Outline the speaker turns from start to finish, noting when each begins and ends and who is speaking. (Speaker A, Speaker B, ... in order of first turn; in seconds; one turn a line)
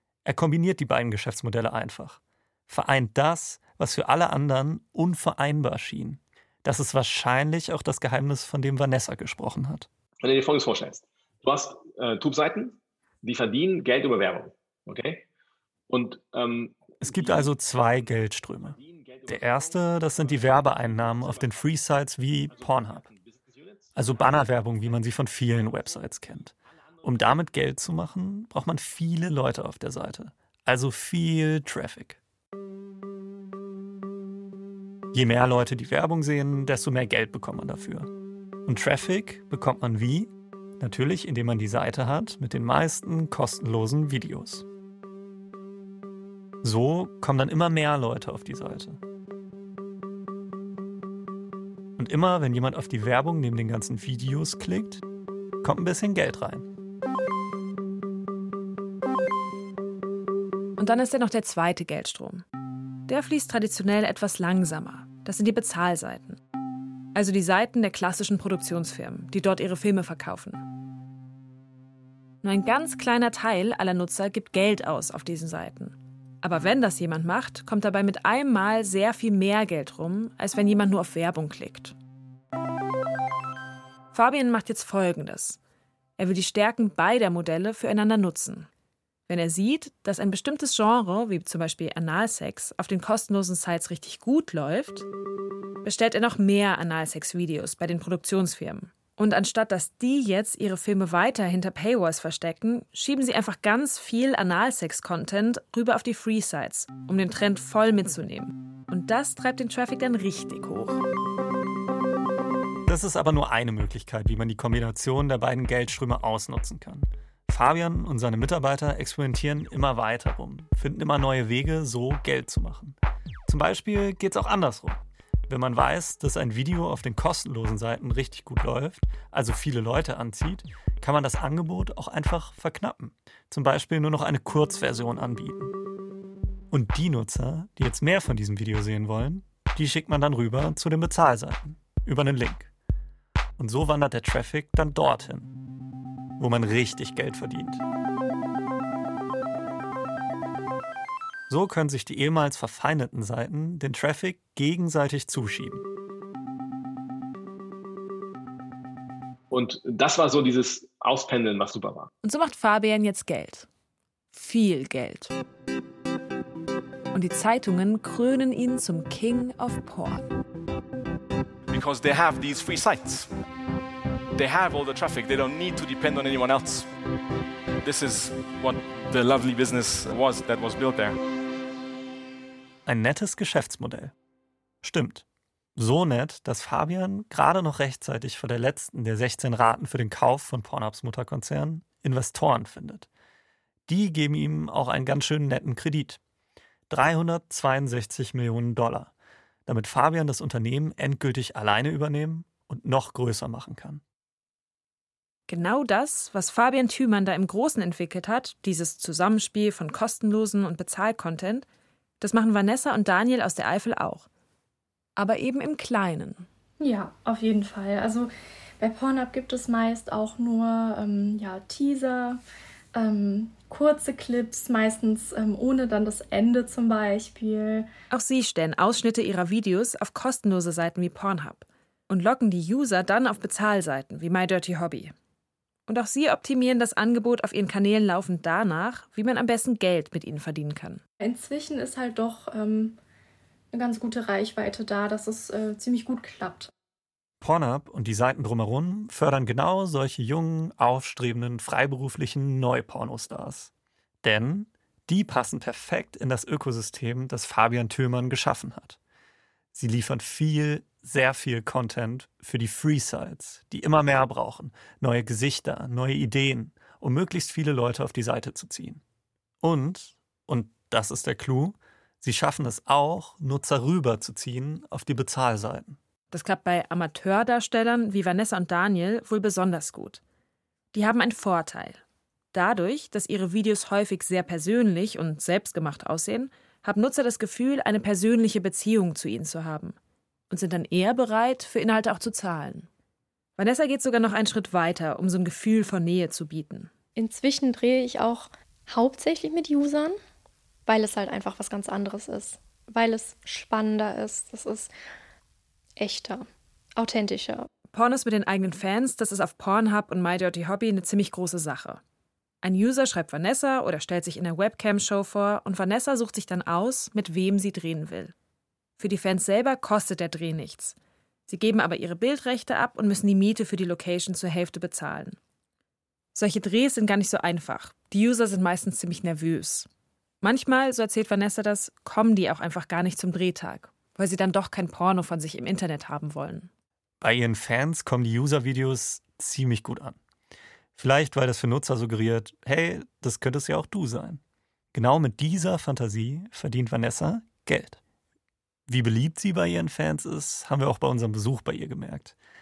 Speaker A: 0.2-9.9
Speaker B: 10.2-15.2
Speaker B: 15.9-27.4
Speaker A: 17.0-23.1
Speaker A: 23.9-32.2
Speaker A: 35.1-38.1
Speaker A: 38.6-44.6
Speaker A: 46.6-49.0
Speaker A: 52.0-55.0
Speaker A: 55.6-56.7
Speaker C: 60.8-62.4
Speaker C: 63.1-66.4
Speaker C: 67.1-70.6
Speaker C: 72.4-82.0
Speaker C: 84.1-85.6
Speaker C: 86.2-88.7
Speaker C: 89.3-95.0
Speaker C: 95.8-111.0
Speaker A: 112.8-135.7
Speaker A: 136.7-142.7
Speaker A: 143.6-145.5
Speaker A: 146.4-147.8
Speaker A: 151.5-155.8
Speaker B: 159.5-162.1
Speaker C: 162.2-163.7
Speaker C: 164.3-165.3
Speaker C: 167.1-170.2
Speaker D: 171.7-173.3
Speaker D: 174.3-176.9
Speaker D: 177.8-181.2
Speaker A: 182.8-184.1
Speaker A: 184.8-185.2
Speaker A: 185.8-193.1
Speaker A: 193.9-196.2
Speaker A: 196.9-199.1
Speaker A: 199.7-204.0
Speaker C: 205.5-211.6
Speaker C: 212.2-214.2
Speaker C: 215.2-216.5
Speaker E: 216.8-222.4
Speaker E: 222.9-227.9
Speaker C: 228.1-235.1
Speaker C: 235.9-241.0
Speaker E: 241.2-243.0
Speaker E: 243.7-246.7
Speaker A: 247.4-253.7
Speaker A: 254.2-259.0
Speaker A: 259.7-269.0
Speaker A: 269.6-276.0
Speaker C: 276.3-280.2
Speaker C: 280.9-282.0
Speaker C: 282.5-289.9
Speaker C: 290.5-292.9
Speaker C: 293.6-296.9
Speaker E: 297.1-300.1
Speaker E: 300.9-304.9
Speaker E: 306.0-307.7
Speaker C: 307.9-312.0
Speaker C: 312.6-318.3
Speaker C: 319.0-320.9
Speaker C: 321.5-325.4
Speaker C: 326.3-329.9
Speaker C: 330.4-336.7
Speaker A: 337.2-340.2
Speaker A: 340.9-344.4
Speaker A: 344.9-348.0
Speaker A: 348.9-352.3